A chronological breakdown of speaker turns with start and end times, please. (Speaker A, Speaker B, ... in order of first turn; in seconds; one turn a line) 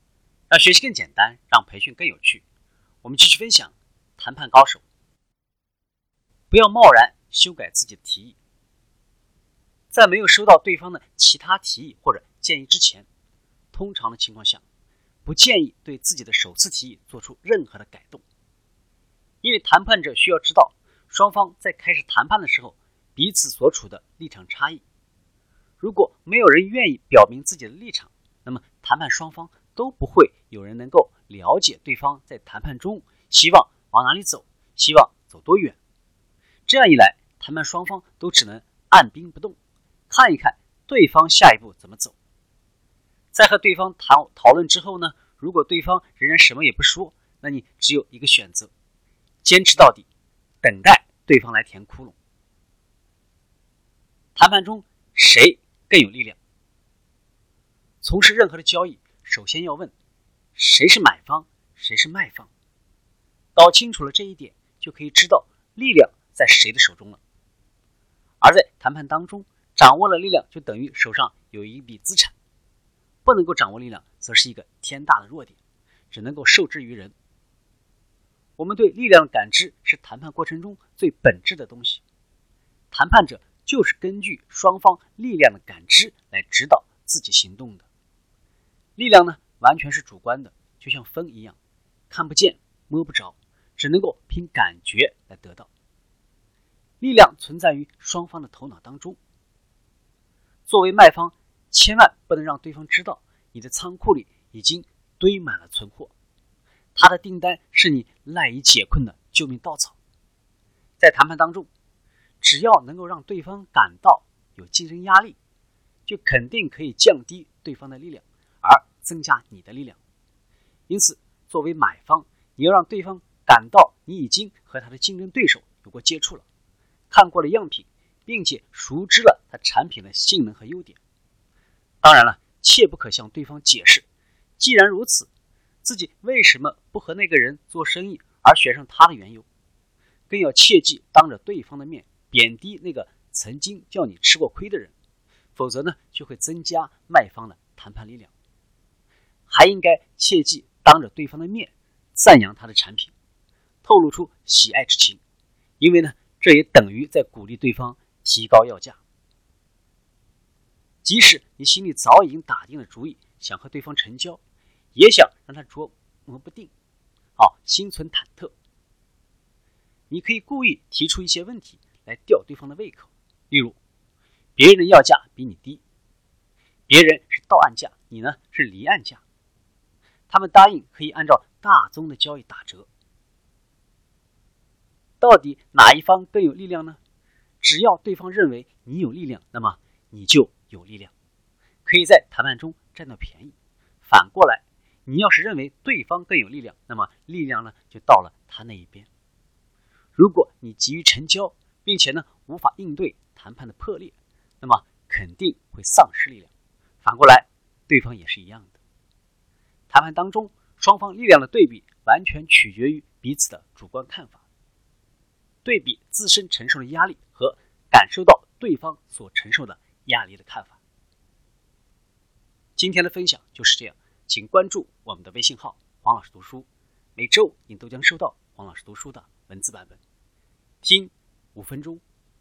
Speaker A: 0.5-2.4
Speaker A: 3.0-4.8
Speaker A: 6.5-8.3
Speaker A: 9.9-13.1
Speaker A: 13.7-14.6
Speaker A: 15.2-18.2
Speaker A: 19.4-24.8
Speaker A: 25.8-35.8
Speaker A: 36.7-39.5
Speaker A: 40.1-42.1
Speaker A: 43.3-48.7
Speaker A: 49.4-50.0
Speaker A: 50.6-52.1
Speaker A: 54.3-56.4
Speaker A: 58.0-59.9
Speaker A: 60.5-62.5
Speaker A: 63.5-67.2
Speaker A: 68.4-72.3
Speaker A: 73.2-75.6
Speaker A: 76.1-77.1
Speaker A: 78.6-82.0
Speaker A: 82.9-87.8
Speaker A: 89.0-91.5
Speaker A: 92.1-95.7
Speaker A: 97.0-99.2
Speaker A: 100.7-106.1
Speaker A: 107.0-110.0
Speaker A: 111.0-111.7
Speaker A: 112.4-115.3
Speaker A: 116.0-120.0
Speaker A: 120.9-126.4
Speaker A: 127.1-131.0
Speaker A: 132.0-134.0
Speaker A: 134.6-135.3
Speaker A: 135.8-139.4
Speaker A: 140.3-144.9
Speaker A: 145.5-148.3
Speaker A: 149.5-153.1
Speaker A: 153.8-155.2
Speaker A: 155.8-159.0
Speaker A: 161.0-164.4
Speaker A: 164.9-166.7
Speaker A: 167.4-168.5
Speaker A: 170.1-173.8
Speaker A: 174.6-175.8
Speaker A: 176.9-179.2
Speaker A: 180.3-182.9
Speaker A: 185.2-187.0
Speaker A: 187.6-191.1
Speaker A: 191.8-193.5
Speaker A: 194.1-199.1
Speaker A: 200.2-206.5
Speaker A: 207.0-208.7
Speaker A: 209.9-214.4
Speaker A: 215.6-220.8
Speaker A: 222.8-230.0
Speaker A: 230.8-232.0